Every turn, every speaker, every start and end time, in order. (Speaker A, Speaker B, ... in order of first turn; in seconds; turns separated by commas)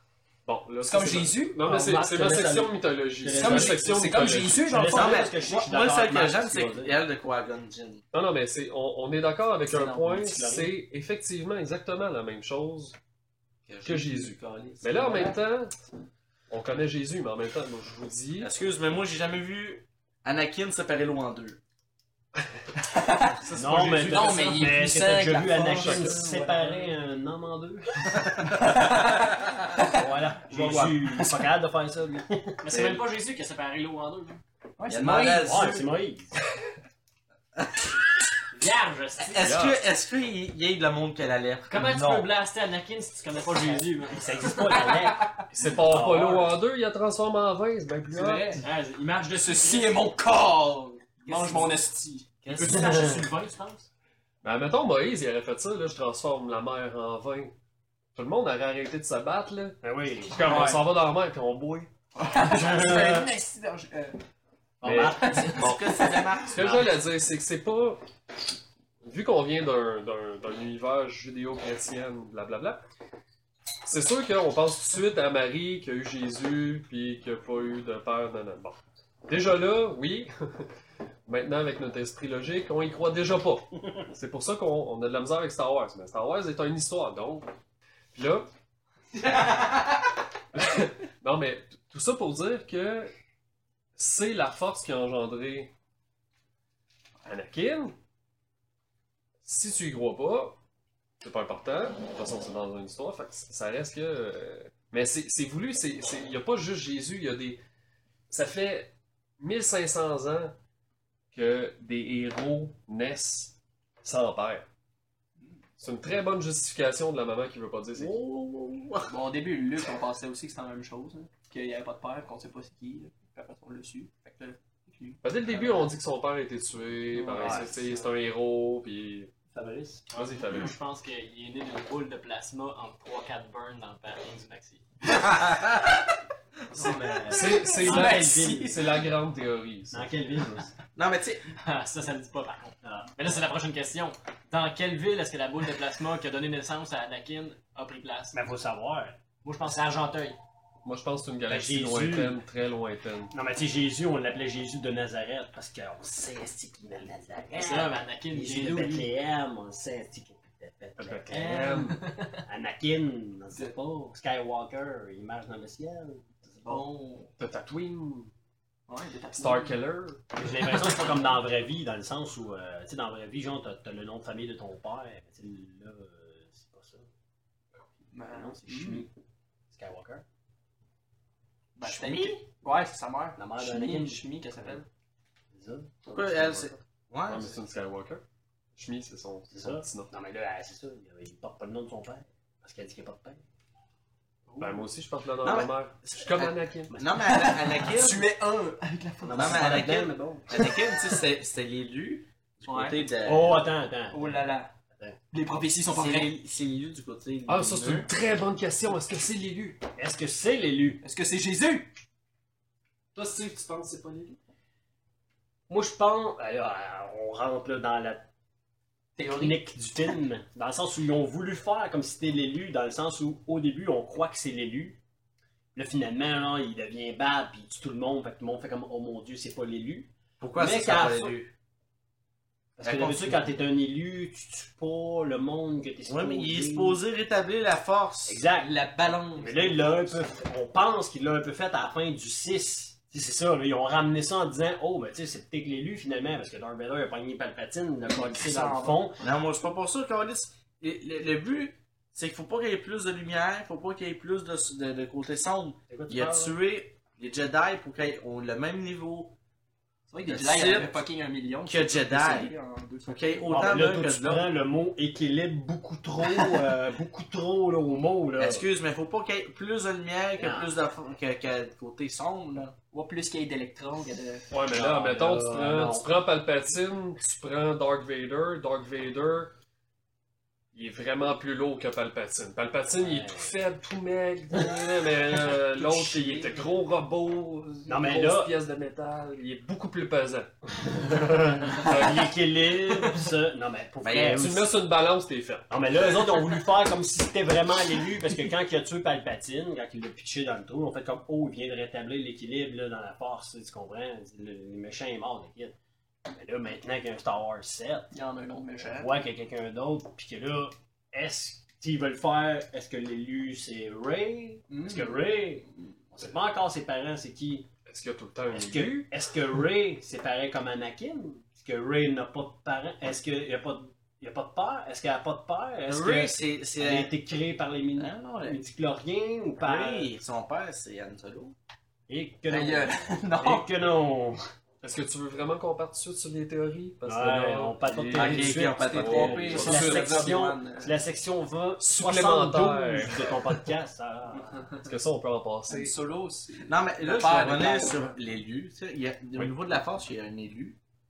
Speaker A: 0.5-4.7, Speaker B: 0.8-1.6, Speaker C: 1.6-7.0, Speaker B: 3.3-5.3, Speaker D: 4.8-8.0, Speaker A: 8.1-12.9, Speaker B: 9.7-10.4, Speaker C: 9.7-10.7, Speaker D: 13.7-15.2, Speaker A: 13.8-15.8, Speaker B: 15.0-15.3, Speaker A: 16.5-18.5, Speaker D: 18.4-21.6, Speaker B: 22.9-23.4, Speaker A: 23.4-24.4, Speaker C: 23.5-28.5, Speaker B: 24.0-26.6, Speaker A: 25.5-26.3, Speaker B: 28.6-29.1, Speaker D: 29.2-29.6, Speaker C: 29.9-32.6, Speaker D: 30.6-30.9, Speaker B: 30.6-30.9, Speaker E: 32.6-34.4, Speaker D: 32.7-33.0, Speaker B: 34.8-35.5, Speaker D: 34.9-35.9, Speaker C: 35.0-36.4, Speaker E: 38.5-39.5, Speaker D: 39.3-42.3, Speaker A: 39.4-39.8, Speaker E: 41.7-44.9, Speaker C: 43.6-46.5, Speaker B: 44.7-45.4, Speaker A: 45.5-48.6, Speaker B: 48.1-48.6, Speaker E: 48.6-50.0, Speaker B: 49.3-52.3, Speaker E: 51.2-51.8, Speaker E: 52.4-53.9, Speaker D: 52.5-53.1, Speaker C: 52.5-53.2, Speaker A: 54.4-57.5, Speaker A: 58.1-61.9, Speaker C: 59.8-60.8, Speaker B: 62.2-64.2, Speaker C: 62.5-63.3, Speaker C: 64.8-65.6, Speaker A: 64.8-65.8, Speaker B: 65.2-66.2, Speaker D: 65.5-66.8, Speaker A: 66.5-68.0, Speaker C: 66.5-66.9, Speaker A: 69.0-72.8, Speaker A: 73.8-80.7, Speaker A: 81.3-87.5, Speaker A: 88.1-88.5, Speaker D: 89.2-90.0, Speaker A: 90.5-93.1, Speaker A: 94.0-95.7, Speaker A: 97.2-97.9, Speaker A: 99.4-100.6, Speaker A: 101.2-107.6, Speaker A: 108.3-110.5, Speaker A: 111.3-114.7, Speaker A: 115.8-118.2, Speaker D: 118.0-119.1, Speaker B: 119.1-125.9, Speaker A: 125.2-129.3, Speaker B: 127.1-128.0, Speaker C: 127.3-127.7, Speaker C: 129.5-130.0, Speaker A: 130.1-130.7, Speaker E: 130.2-134.8, Speaker D: 135.1-136.0, Speaker C: 136.7-138.7, Speaker D: 136.7-137.4, Speaker B: 136.9-139.0, Speaker A: 137.3-140.1, Speaker C: 139.9-140.7, Speaker D: 140.9-141.4, Speaker E: 141.6-148.4, Speaker C: 142.8-143.1, Speaker C: 148.3-149.2, Speaker E: 149.4-150.4, Speaker A: 150.8-153.3, Speaker C: 151.5-152.4, Speaker C: 153.3-166.8, Speaker E: 157.6-159.1, Speaker A: 161.0-162.0, Speaker B: 166.6-167.3, Speaker A: 167.4-168.3, Speaker B: 168.9-169.8, Speaker A: 169.3-170.2, Speaker C: 170.3-177.1, Speaker B: 178.1-179.1, Speaker C: 178.3-179.1, Speaker C: 179.7-180.2, Speaker B: 181.8-184.8, Speaker D: 181.8-182.4, Speaker C: 183.4-184.8, Speaker C: 185.5-186.7, Speaker D: 186.1-187.6, Speaker A: 187.2-188.2, Speaker A: 188.8-190.1, Speaker C: 189.5-193.4, Speaker B: 194.5-194.8, Speaker A: 194.6-196.9, Speaker D: 195.4-198.3, Speaker C: 196.9-197.2, Speaker B: 197.2-201.2, Speaker C: 199.2-200.4, Speaker D: 199.3-203.7, Speaker B: 202.7-203.0, Speaker C: 203.2-205.2, Speaker B: 204.1-204.7, Speaker B: 205.3-206.3, Speaker D: 205.9-208.1, Speaker A: 207.5-209.8, Speaker C: 210.0-211.0, Speaker B: 211.0-211.9, Speaker A: 213.1-214.4, Speaker C: 215.7-218.3, Speaker B: 219.2-219.6, Speaker C: 219.2-225.0, Speaker C: 225.7-231.3, Speaker D: 230.4-231.5, Speaker C: 232.8-237.0, Speaker D: 232.8-233.5, Speaker D: 236.1-238.4, Speaker C: 238.2-238.7, Speaker B: 238.6-240.2, Speaker C: 239.3-249.2, Speaker B: 248.3-249.0, Speaker D: 249.2-259.4, Speaker C: 255.9-256.6, Speaker B: 260.1-263.9, Speaker D: 260.2-261.0, Speaker D: 261.6-264.5, Speaker C: 263.5-268.7, Speaker D: 268.4-272.8, Speaker C: 270.4-270.7, Speaker B: 272.8-274.5, Speaker A: 274.5-279.5, Speaker C: 274.7-276.1, Speaker A: 280.7-290.5, Speaker C: 283.0-283.5, Speaker D: 285.7-286.5, Speaker C: 287.9-288.5, Speaker C: 290.8-294.7, Speaker A: 291.7-292.3, Speaker D: 294.0-294.5, Speaker A: 294.4-295.7, Speaker C: 295.7-305.7, Speaker C: 306.2-308.1, Speaker B: 308.1-309.1, Speaker C: 308.8-317.7, Speaker B: 314.7-315.2, Speaker A: 317.9-319.1, Speaker C: 318.5-330.1, Speaker D: 325.9-327.1, Speaker D: 328.0-328.6, Speaker D: 329.6-331.6, Speaker C: 332.1-334.4, Speaker B: 332.5-333.7, Speaker A: 334.8-340.3, Speaker C: 337.0-344.7, Speaker D: 338.1-340.3, Speaker B: 338.7-340.9, Speaker A: 341.8-343.6, Speaker A: 344.8-345.9, Speaker B: 345.7-348.1, Speaker D: 346.7-350.8